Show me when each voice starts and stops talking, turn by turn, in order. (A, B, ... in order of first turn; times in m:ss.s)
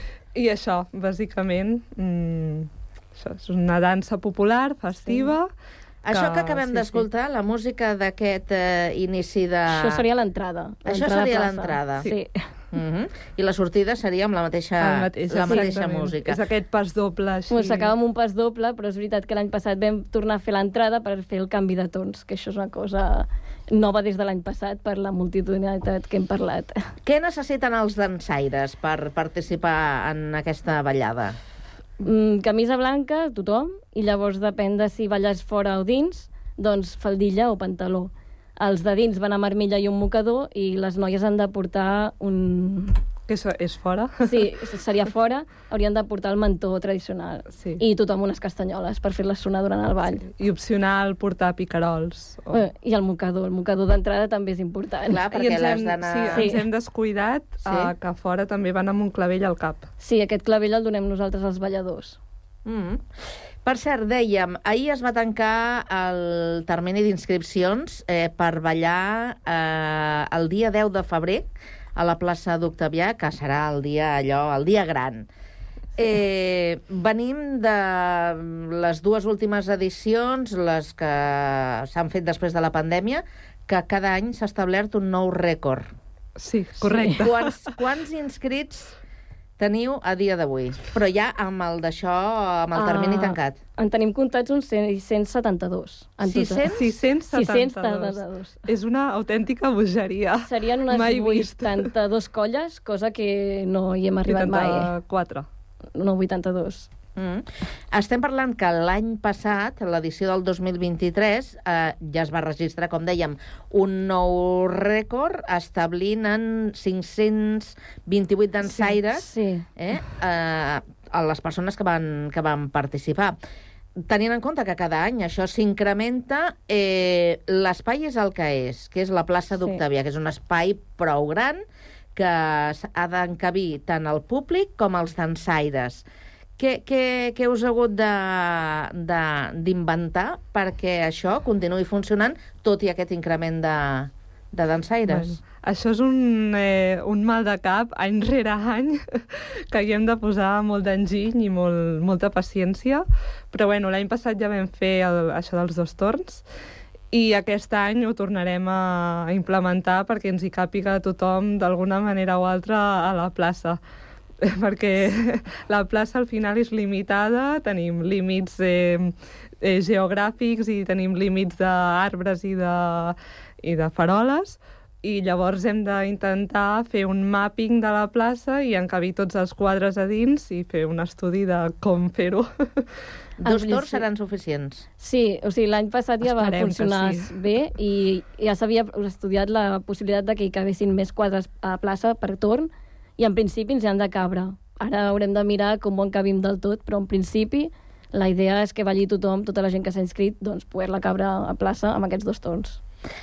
0:00.3-0:05.5 A
0:06.0-0:10.0 B
0:06.1-0:07.0 A
0:09.7-0:12.5 C
0:10.8-0:12.1 B
0:12.7-0:16.4 B
0:14.8-0:17.9 A
0:15.4-0:15.8 C
0:17.5-0:26.9 C
0:27.0-0:31.4 B
0:32.0-0:43.0 C
0:43.3-0:44.3 A
0:44.3-0:50.2 C
0:47.5-0:47.8 A
0:50.1-0:52.6 A
0:52.5-0:55.3 C
0:55.1-0:56.6 B
0:55.3-0:59.9 A
0:56.3-0:56.6 C
0:57.6-0:57.9 B
1:00.0-1:02.2 C
1:02.6-1:03.0 B
1:03.6-1:15.3 B
1:16.0-1:25.9 B
1:26.4-1:27.7 A
1:26.9-1:27.2 C
1:27.2-1:28.9 B
1:29.6-1:33.6 B
1:32.7-1:38.6 C
1:36.2-1:36.9 B
1:36.7-1:41.9 A
1:40.4-1:44.9 C
1:44.2-1:45.4 A
1:45.9-1:46.9 C
1:47.2-2:03.4 B
1:58.6-1:59.6 C
2:04.1-2:11.6 B
2:12.2-2:16.0 B
2:16.6-2:25.4 B
2:25.1-2:36.4 A
2:37.1-2:43.8 A
2:44.4-3:02.9 A
3:03.4-3:04.0 C
3:03.4-3:04.8 B
3:05.0-3:22.8 C
3:06.2-3:07.4 A